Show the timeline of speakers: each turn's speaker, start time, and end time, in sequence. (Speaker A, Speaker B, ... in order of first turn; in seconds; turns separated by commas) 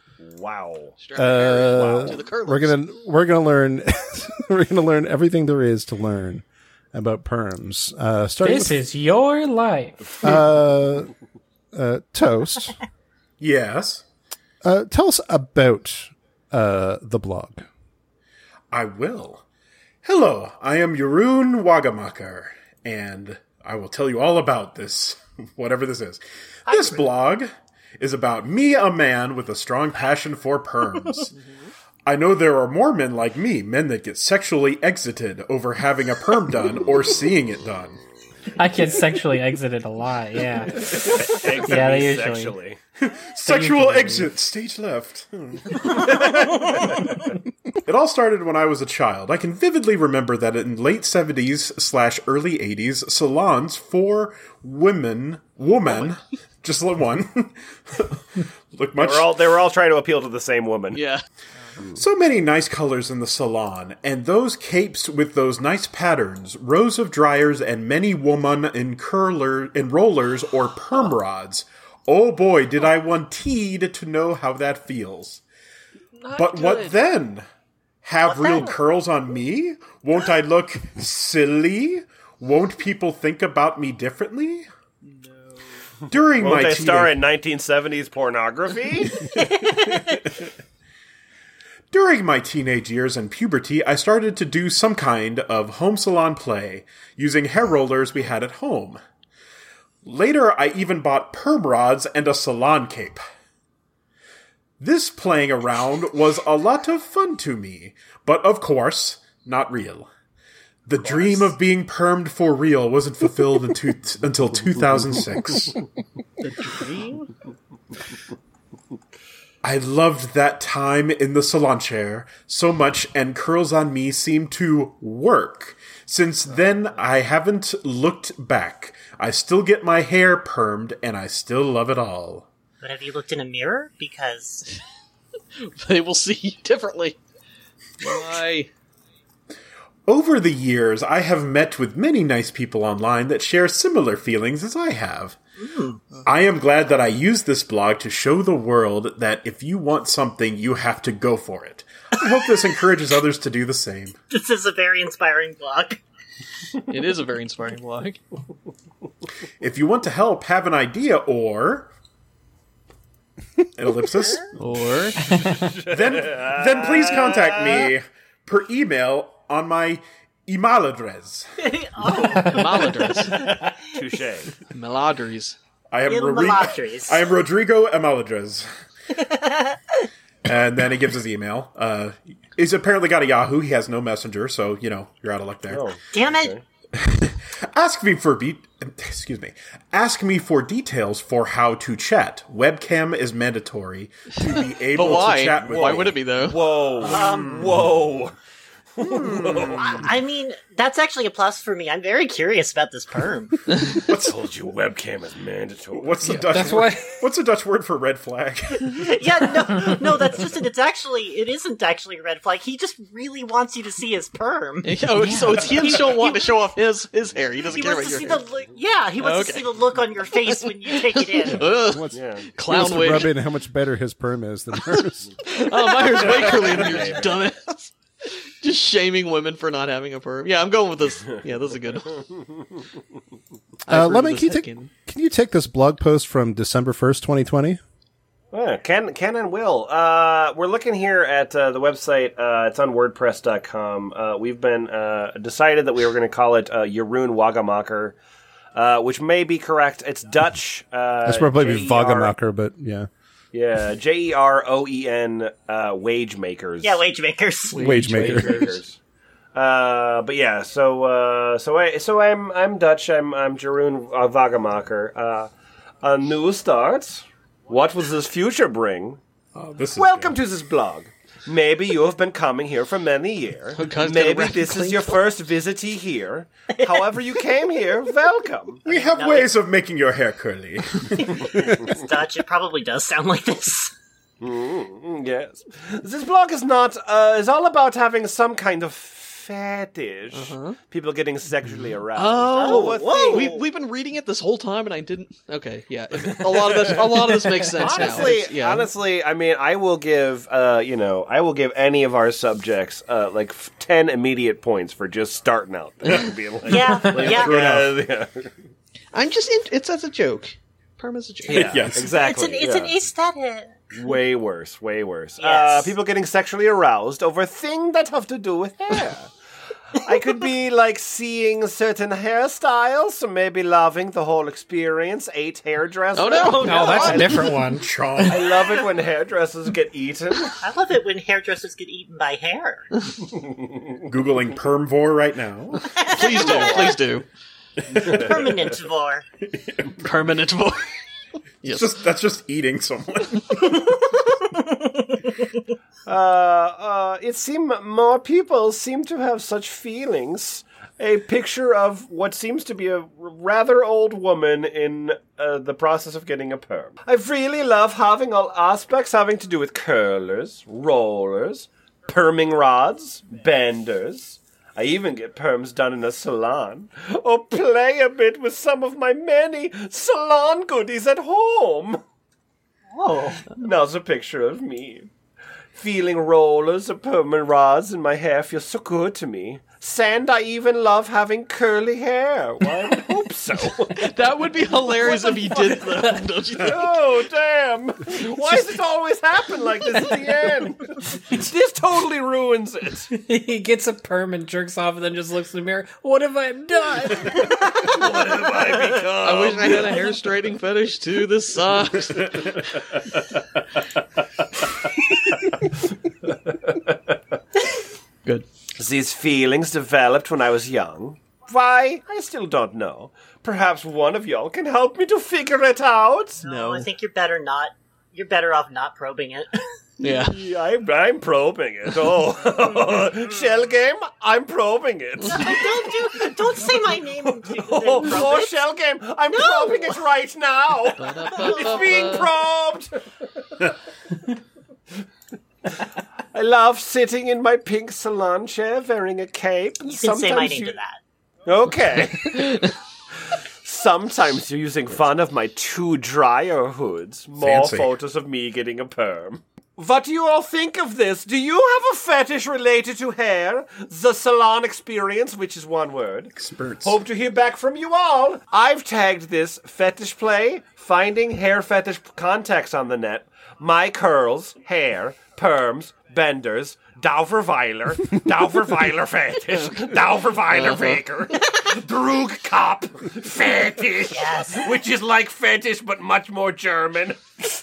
Speaker A: 0.2-1.0, Speaker B: 1.0-2.8, Speaker C: 1.1-8.8, Speaker D: 8.4-10.4, Speaker C: 10.2-11.1, Speaker C: 11.7-12.8, Speaker E: 13.4-14.0, Speaker C: 14.6-17.7, Speaker E: 18.7-19.4, Speaker E: 20.0-31.3, Speaker F: 26.7-27.1, Speaker E: 32.1-38.0, Speaker D: 38.6-42.6, Speaker A: 40.8-42.8, Speaker E: 43.0-47.1, Speaker D: 43.4-44.3, Speaker E: 47.7-59.4, Speaker A: 59.0-61.0, Speaker B: 60.9-61.2, Speaker E: 61.9-75.4, Speaker B: 76.2-77.0, Speaker E: 76.4-77.5, Speaker E: 78.0-84.7, Speaker F: 78.3-78.8, Speaker B: 85.0-85.8, Speaker E: 86.1-87.1, Speaker A: 86.4-89.3, Speaker F: 89.4-90.1, Speaker E: 91.9-99.0, Speaker E: 100.0-103.2, Speaker E: 104.8-110.1, Speaker E: 110.9-115.8, Speaker A: 111.0-111.4, Speaker B: 116.4-117.3, Speaker E: 119.6-132.5, Speaker F: 132.8-134.7, Speaker B: 135.6-137.2, Speaker B: 138.0-138.7, Speaker E: 140.1-145.4, Speaker F: 145.6-146.0, Speaker E: 146.2-154.2, Speaker F: 154.3-156.0, Speaker B: 156.9-158.2, Speaker E: 159.6-161.9, Speaker E: 163.8-164.5, Speaker F: 164.2-164.5, Speaker B: 164.6-165.2, Speaker D: 165.2-165.8, Speaker A: 165.4-167.9, Speaker E: 165.9-171.5, Speaker F: 171.6-173.6, Speaker B: 172.5-173.4, Speaker A: 173.4-174.5, Speaker B: 174.7-175.6, Speaker E: 175.9-178.7, Speaker F: 176.1-177.2, Speaker F: 179.2-180.1, Speaker E: 180.4-185.9, Speaker A: 185.7-186.6, Speaker F: 186.1-186.5, Speaker E: 187.0-196.2, Speaker B: 194.9-196.7, Speaker A: 194.9-198.3, Speaker E: 197.0-197.9, Speaker F: 197.1-197.8, Speaker A: 199.0-200.1, Speaker E: 199.1-200.1, Speaker F: 199.6-203.9, Speaker A: 203.9-206.4, Speaker E: 204.1-204.3, Speaker E: 206.0-209.2, Speaker D: 206.3-207.2, Speaker F: 208.8-216.5, Speaker B: 214.8-218.4, Speaker D: 215.2-215.5, Speaker F: 217.7-221.7, Speaker B: 219.2-219.8, Speaker B: 220.5-223.4, Speaker C: 221.6-225.4, Speaker A: 222.1-222.5, Speaker B: 224.9-227.9, Speaker A: 226.0-227.4, Speaker B: 228.6-232.3, Speaker B: 233.9-234.9, Speaker C: 233.9-237.8, Speaker A: 238.5-248.2, Speaker A: 248.7-252.3, Speaker C: 251.2-253.1, Speaker A: 253.5-257.0, Speaker F: 256.8-258.4, Speaker B: 257.7-258.8, Speaker C: 257.8-258.6, Speaker A: 258.1-259.0, Speaker A: 259.5-265.5, Speaker A: 266.0-269.2, Speaker E: 269.6-270.4, Speaker A: 269.9-278.9, Speaker B: 273.8-275.2, Speaker F: 276.8-277.2, Speaker E: 278.9-281.4, Speaker F: 278.9-279.6, Speaker F: 281.2-283.9, Speaker A: 281.5-282.0, Speaker A: 284.4-293.5, Speaker B: 290.3-290.8, Speaker B: 292.1-298.9, Speaker F: 292.5-293.6, Speaker A: 296.6-297.1, Speaker A: 297.8-308.5, Speaker D: 297.9-298.2, Speaker E: 306.1-308.0, Speaker F: 306.7-307.6, Speaker D: 307.1-307.3, Speaker B: 309.1-311.9, Speaker A: 311.5-313.0, Speaker E: 311.5-312.1, Speaker F: 312.1-313.9, Speaker A: 313.9-319.3, Speaker F: 315.4-316.0, Speaker A: 320.0-327.5, Speaker B: 326.1-327.3, Speaker F: 326.5-327.1, Speaker D: 326.6-327.9, Speaker E: 327.8-328.5, Speaker A: 328.2-330.6, Speaker F: 330.6-333.1, Speaker E: 334.0-335.9, Speaker F: 335.9-337.0, Speaker B: 336.0-337.3, Speaker E: 337.9-338.7, Speaker F: 337.9-339.2, Speaker E: 339.6-340.0, Speaker B: 340.0-340.9, Speaker B: 341.6-342.0, Speaker E: 341.7-344.2, Speaker A: 346.1-372.0, Speaker F: 372.9-373.5, Speaker A: 373.5-375.1, Speaker A: 375.8-384.1, Speaker B: 383.9-387.0, Speaker A: 385.1-385.8, Speaker A: 386.5-393.1, Speaker D: 393.1-398.0, Speaker A: 397.8-400.1, Speaker B: 399.2-402.8, Speaker A: 406.5-407.1, Speaker A: 408.8-416.4, Speaker F: 416.4-419.6, Speaker B: 416.4-416.9, Speaker B: 420.0-420.4, Speaker A: 420.0-432.9, Speaker F: 425.2-428.6, Speaker F: 429.3-430.0, Speaker B: 431.0-432.3, Speaker F: 431.4-431.8, Speaker A: 436.3-440.8, Speaker F: 439.9-441.0, Speaker A: 441.5-442.7, Speaker B: 442.3-442.7, Speaker A: 443.3-477.2, Speaker E: 447.4-447.9, Speaker E: 456.4-457.0, Speaker B: 470.5-471.0, Speaker F: 474.1-474.7